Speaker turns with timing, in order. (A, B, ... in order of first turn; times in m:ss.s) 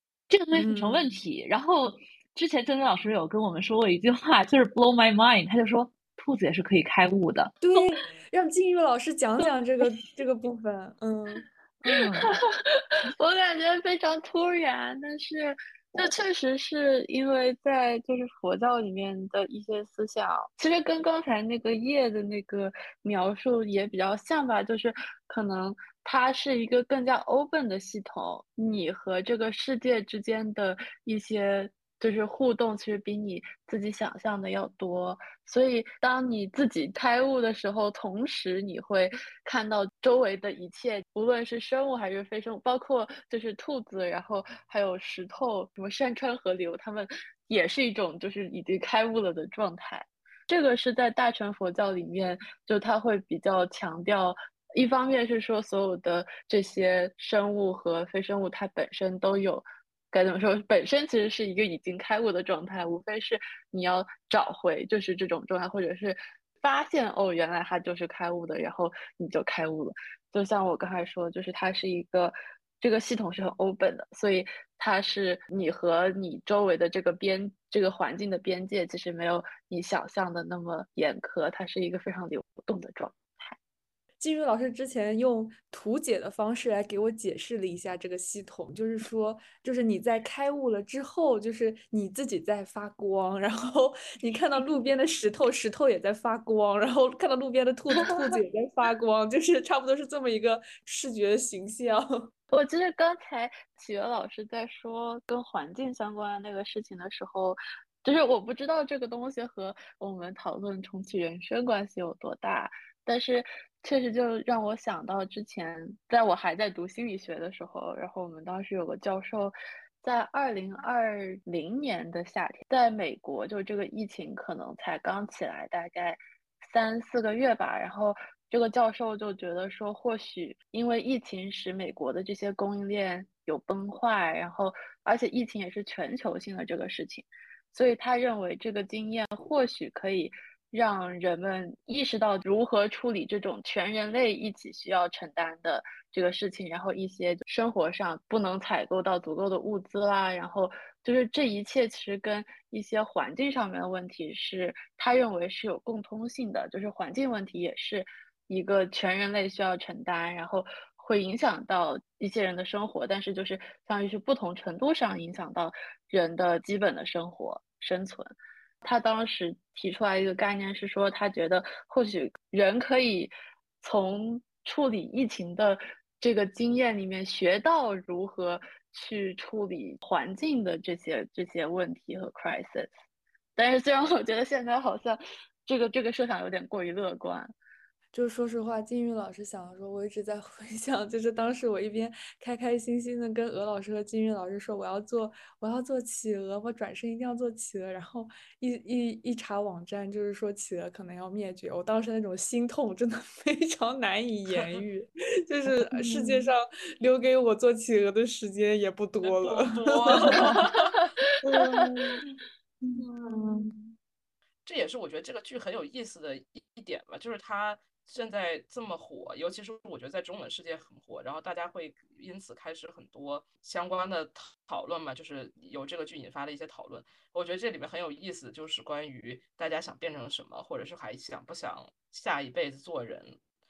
0:00.3-0:07.6 A
0:00.5-0:01.1 B
0:07.6-0:12.3 B
0:12.0-1:23.6 C
1:24.2-1:42.3 B
1:42.5-2:48.3 C
2:48.8-2:53.3 C
2:53.8-3:02.9 C
3:03.6-3:07.5 C
3:08.1-3:30.6 B
3:29.2-3:31.1 D
3:31.0-3:32.1 C
3:31.4-3:32.2 B
3:32.8-3:33.7 B
3:33.0-3:33.7 C
3:34.6-3:53.4 D